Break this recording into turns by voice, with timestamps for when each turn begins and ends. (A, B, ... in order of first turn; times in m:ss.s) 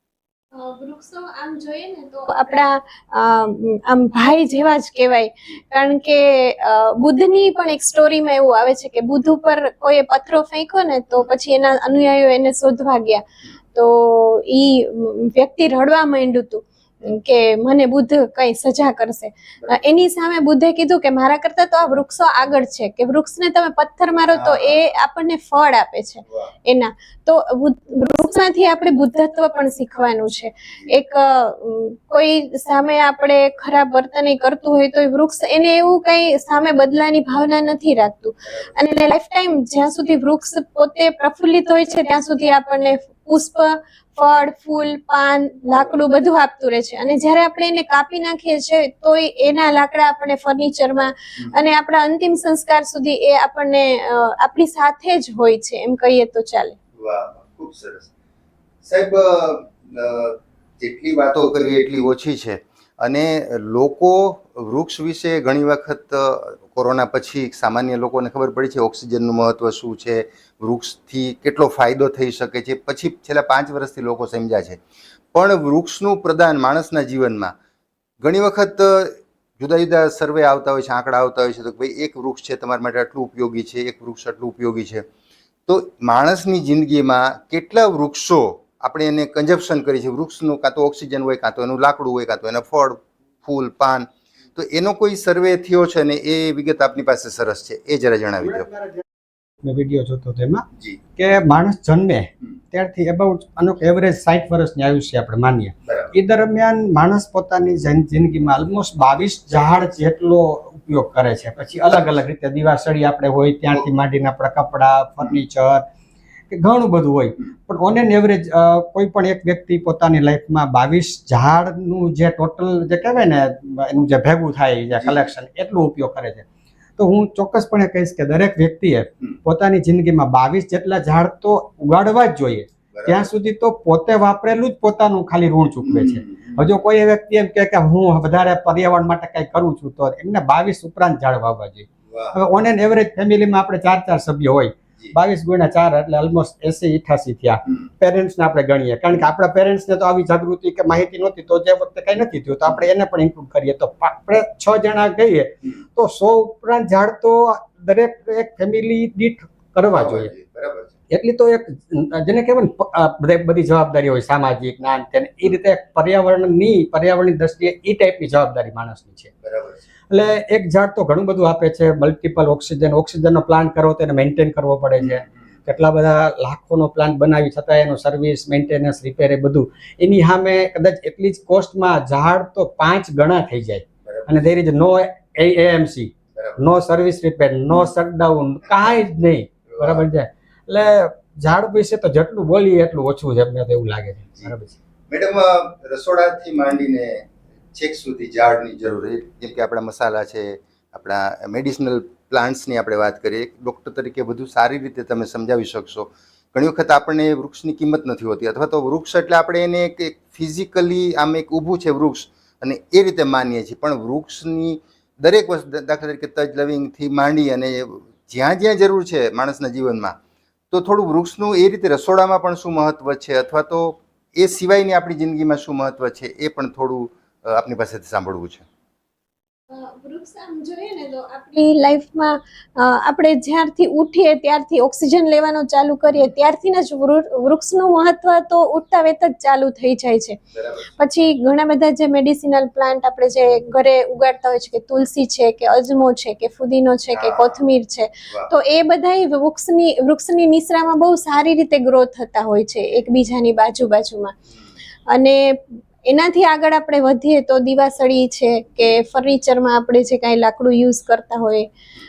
0:00.5-0:56.8 A
0:24.3-0:24.8 B
0:26.3-0:26.5 B
0:38.4-0:38.7 B
0:57.0-0:58.1 B
0:58.8-1:14.8 B
1:15.3-1:17.5 B
1:18.2-1:25.1 B
1:25.7-1:38.7 B
1:38.4-1:39.0 C
1:39.6-1:40.6 C
1:41.2-1:55.8 C
1:45.9-1:46.1 B
1:56.5-2:06.5 C
2:07.0-2:40.3 C
2:12.9-2:13.3 B
2:15.8-2:16.6 B
2:22.1-2:22.4 B
2:39.9-2:40.9 B
2:41.1-2:49.3 C
2:49.4-2:49.8 B
2:50.1-3:14.8 C
2:55.0-2:55.3 B
3:04.1-3:04.5 B
3:06.4-3:06.6 B
3:09.7-3:10.1 B
3:15.1-3:40.2 B
3:40.7-3:48.6 B
3:49.7-4:00.4 A
4:00.5-4:01.0 B
4:01.0-4:14.4 A
4:07.1-4:07.6 B
4:15.1-4:21.7 A